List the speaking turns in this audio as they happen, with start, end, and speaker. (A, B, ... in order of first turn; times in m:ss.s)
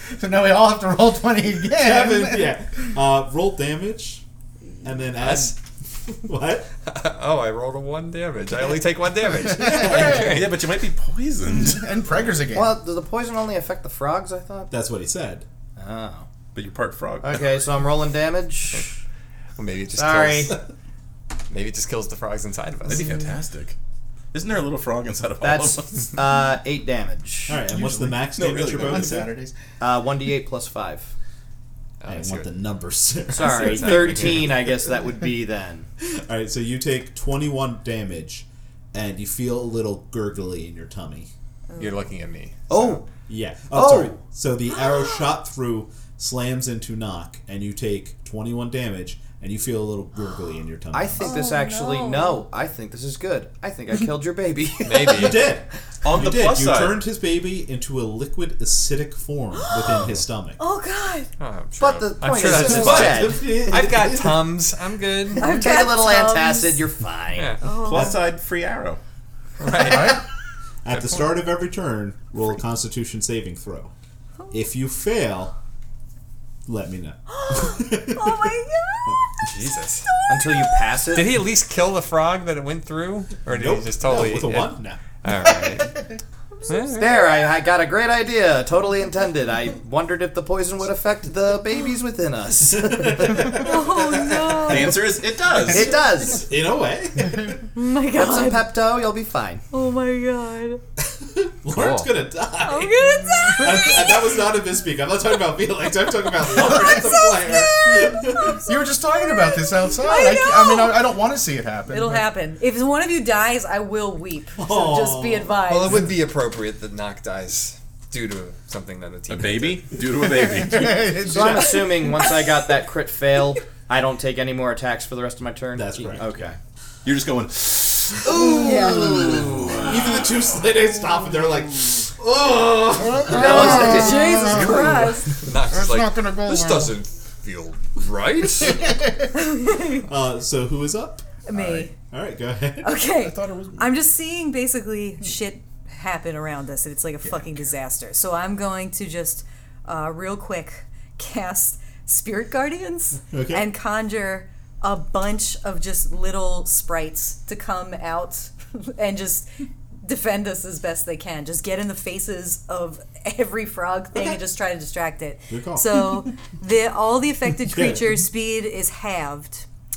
0:00.1-0:02.6 A
0:01.7-0:04.2 B
0:04.8-0:06.7 B
0:05.2-0:05.6 C
0:06.9-0:10.6 C
0:09.5-0:10.4 A
0:09.7-0:12.0 D
0:11.6-0:12.8 A
0:12.5-0:14.7 E
0:14.7-0:15.5 B
0:15.8-0:16.3 E
0:16.5-0:17.6 D
0:17.2-0:19.0 E
0:19.6-0:20.6 C
0:20.0-0:20.6 E
0:21.5-0:23.1 C
0:22.9-0:23.8 D
0:24.3-0:26.1 D
0:25.4-0:27.6 E
0:27.5-0:29.3 B
0:27.6-0:29.5 A
0:28.4-0:29.1 D
0:29.8-0:31.1 E
0:32.0-0:32.5 C
0:32.0-0:34.6 B
0:33.3-0:35.9 E
0:33.6-0:34.3 C
0:36.0-0:41.3 B
0:41.8-0:43.0 C
0:42.7-0:43.1 E
0:43.3-0:51.5 B
0:43.7-0:44.2 E
0:50.9-0:55.4 E
0:51.2-0:52.4 F
0:54.8-0:55.5 C
0:55.1-1:00.6 B
0:56.0-0:57.0 D
0:59.6-1:00.0 F
1:00.6-1:01.3 F
1:01.4-1:05.6 C
1:01.8-1:03.6 E
1:02.3-1:04.6 B
1:05.4-1:06.8 F
1:05.4-1:07.6 E
1:07.4-1:07.6 C
1:07.6-1:08.3 F
1:07.8-1:09.0 D
1:07.9-1:08.2 B
1:09.6-1:10.3 C
1:09.7-1:10.3 A
1:10.8-1:13.9 B
1:10.9-1:11.3 C
1:14.5-1:15.6 B
1:16.7-1:19.2 B
1:17.3-1:19.2 F
1:19.4-1:20.2 C
1:20.1-1:21.0 F
1:20.3-1:21.4 E
1:21.1-1:26.0 C
1:23.5-1:25.0 B
1:25.4-1:25.8 A
1:26.7-1:27.2 C
1:27.0-1:33.6 E
1:32.7-1:37.6 B
1:33.5-1:35.0 F
1:34.5-1:36.0 D
1:35.6-1:36.0 A
1:35.7-1:36.5 E
1:37.7-1:38.7 F
1:38.2-1:39.6 E
1:39.7-1:40.8 F
1:41.0-1:48.6 B
1:41.7-1:42.1 C
1:42.6-1:44.4 F
1:46.4-1:51.2 F
1:48.6-1:52.3 A
1:51.9-1:56.0 F
1:54.6-1:55.6 B
1:55.7-1:59.9 C
1:59.3-2:01.2 D
2:00.5-2:01.9 A
2:01.2-2:06.6 E
2:01.3-2:01.7 B
2:05.8-2:06.4 B
2:07.0-2:10.2 D
2:08.2-2:14.8 B
2:08.4-2:09.5 F
2:13.1-2:17.0 A
2:13.2-2:15.0 E
2:13.3-2:15.4 F
2:15.4-2:19.0 C
2:18.6-2:19.1 A
2:19.3-2:20.0 F
2:20.0-2:23.0 B
2:21.5-2:22.0 F
2:22.8-2:49.7 F
2:23.1-2:23.9 A
2:33.3-2:33.7 B
2:44.1-2:44.4 B
2:45.5-2:46.2 B
2:47.6-2:48.2 B